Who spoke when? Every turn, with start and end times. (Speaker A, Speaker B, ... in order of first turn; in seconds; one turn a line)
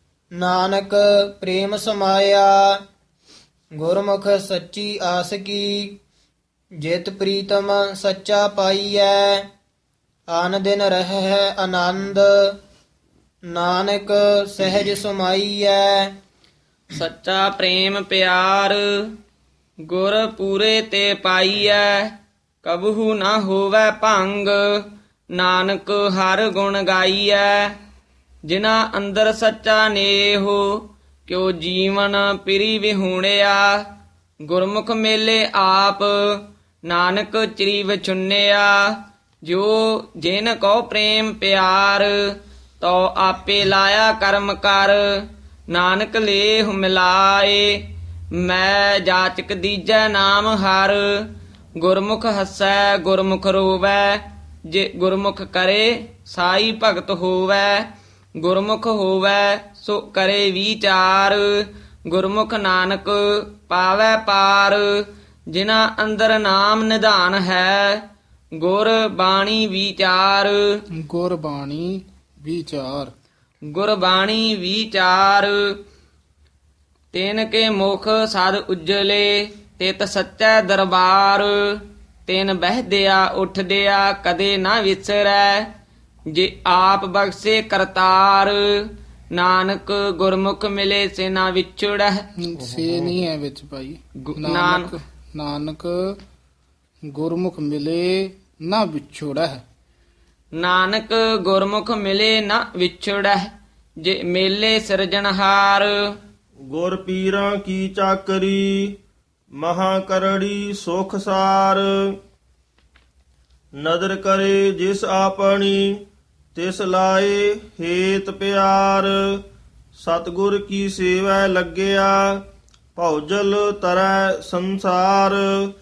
Speaker A: 0.4-2.6
Speaker A: 3.8-6.0
Speaker A: 6.8-9.4
Speaker A: 10.3-12.5
Speaker A: 13.5-16.1
Speaker B: 16.9-18.8
Speaker B: 19.9-22.1
Speaker B: 22.6-24.8
Speaker B: 25.3-27.8
Speaker B: 28.5-33.8
Speaker B: 34.5-38.8
Speaker B: 39.5-42.1
Speaker B: 42.8-47.8
Speaker B: 48.4-51.3
Speaker B: 51.8-57.8
Speaker B: 58.4-64.9
Speaker B: 65.5-68.0
Speaker B: 68.6-70.6
Speaker C: 71.0-73.1
Speaker B: 73.7-75.6
Speaker B: 77.1-85.7
Speaker B: 86.3-88.6
Speaker B: 89.3-92.2
Speaker C: 92.5-96.2
Speaker B: 94.3-95.0
Speaker C: 97.1-99.6
Speaker B: 100.6-103.5
Speaker B: 104.0-105.9
Speaker D: 106.7-108.9
Speaker D: 109.6-111.8
Speaker D: 113.8-116.0
Speaker D: 116.5-119.1
Speaker D: 120.0-122.2
Speaker D: 123.0-125.4